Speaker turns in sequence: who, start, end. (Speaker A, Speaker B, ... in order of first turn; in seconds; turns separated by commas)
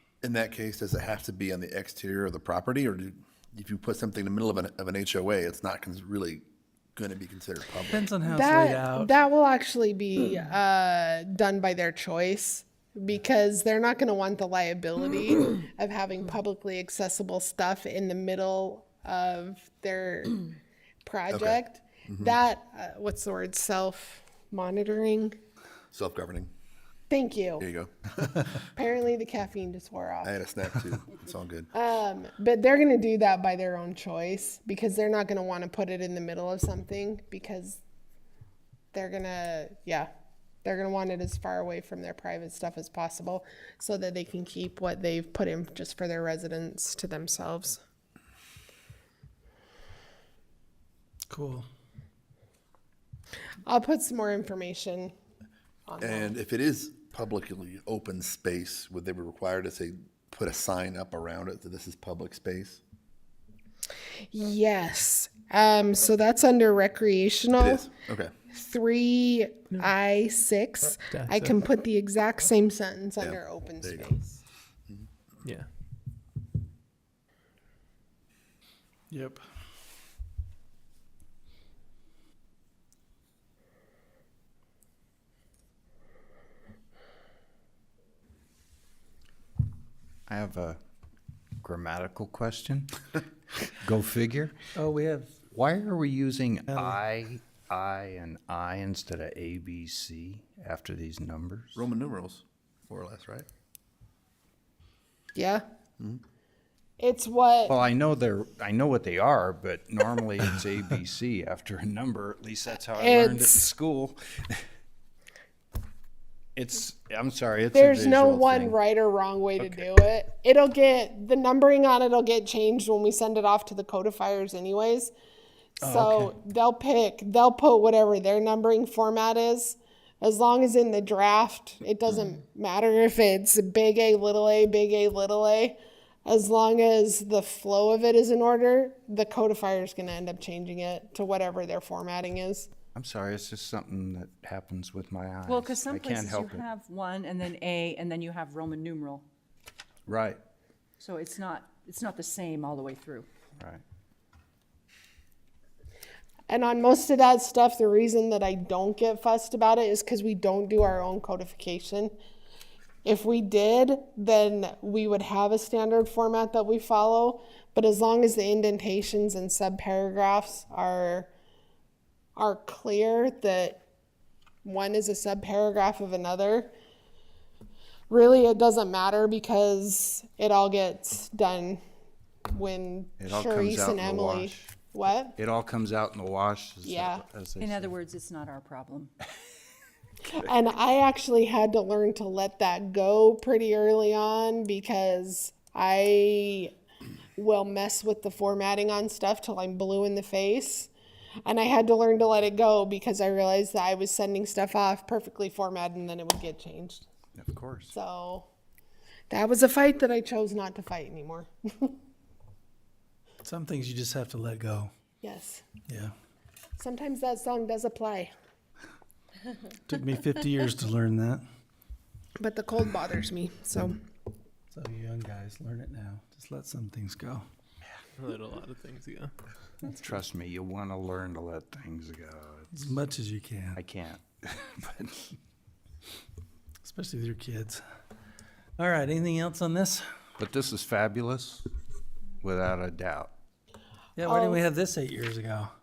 Speaker A: 0.2-6.4, Speaker A: 7.0-8.1, Speaker B: 7.9-9.1, Speaker C: 8.2-20.5, Speaker C: 21.0-25.3, Speaker A: 21.3-22.4, Speaker A: 25.9-26.5, Speaker C: 27.1-27.6, Speaker A: 27.6-28.5, Speaker C: 28.7-30.3, Speaker A: 30.2-31.7, Speaker C: 31.7-37.8, Speaker C: 38.9-40.1, Speaker C: 40.6-47.8, Speaker B: 51.3-51.6, Speaker C: 53.6-55.1, Speaker C: 55.9-56.3, Speaker A: 56.0-62.8, Speaker C: 64.3-67.9, Speaker A: 67.6-68.3, Speaker C: 68.5-74.4, Speaker D: 71.1-71.6, Speaker A: 73.2-74.1, Speaker D: 75.4-75.7, Speaker B: 79.1-79.4, Speaker E: 90.3-90.8, Speaker E: 91.6-93.0, Speaker E: 93.8-94.5, Speaker B: 94.7-95.3, Speaker E: 95.5-101.8, Speaker A: 101.7-103.5, Speaker C: 105.3-105.6, Speaker C: 107.0-107.8, Speaker E: 107.7-114.6, Speaker C: 112.9-113.7, Speaker E: 116.5-118.8, Speaker C: 117.7-125.1, Speaker C: 125.8-142.7, Speaker B: 125.8-126.3, Speaker E: 142.9-146.6, Speaker F: 145.4-149.2, Speaker E: 150.1-150.4, Speaker F: 151.0-153.3, Speaker C: 156.5-162.1, Speaker C: 163.0-171.3, Speaker C: 172.3-173.8, Speaker C: 174.6-176.7, Speaker C: 178.1-181.8, Speaker C: 182.5-185.4, Speaker E: 183.2-184.7, Speaker E: 185.4-187.9, Speaker C: 186.8-187.2, Speaker F: 187.6-189.1, Speaker C: 190.3-196.7, Speaker C: 197.4-200.9, Speaker C: 201.4-207.0, Speaker E: 207.3-207.9, Speaker C: 207.9-208.5, Speaker C: 209.3-211.9, Speaker B: 213.4-214.9, Speaker C: 215.2-215.6, Speaker B: 215.9-216.1, Speaker C: 216.8-218.3, Speaker B: 219.8-221.4, Speaker C: 222.4-223.9, Speaker B: 224.7-227.4, Speaker D: 228.2-229.3, Speaker E: 229.9-232.9, Speaker B: 232.7-233.8, Speaker E: 233.7-235.2, Speaker B: 236.8-237.8, Speaker B: 238.8-240.0, Speaker E: 240.4-241.7, Speaker E: 242.4-243.3, Speaker B: 244.2-245.7, Speaker C: 244.2-244.6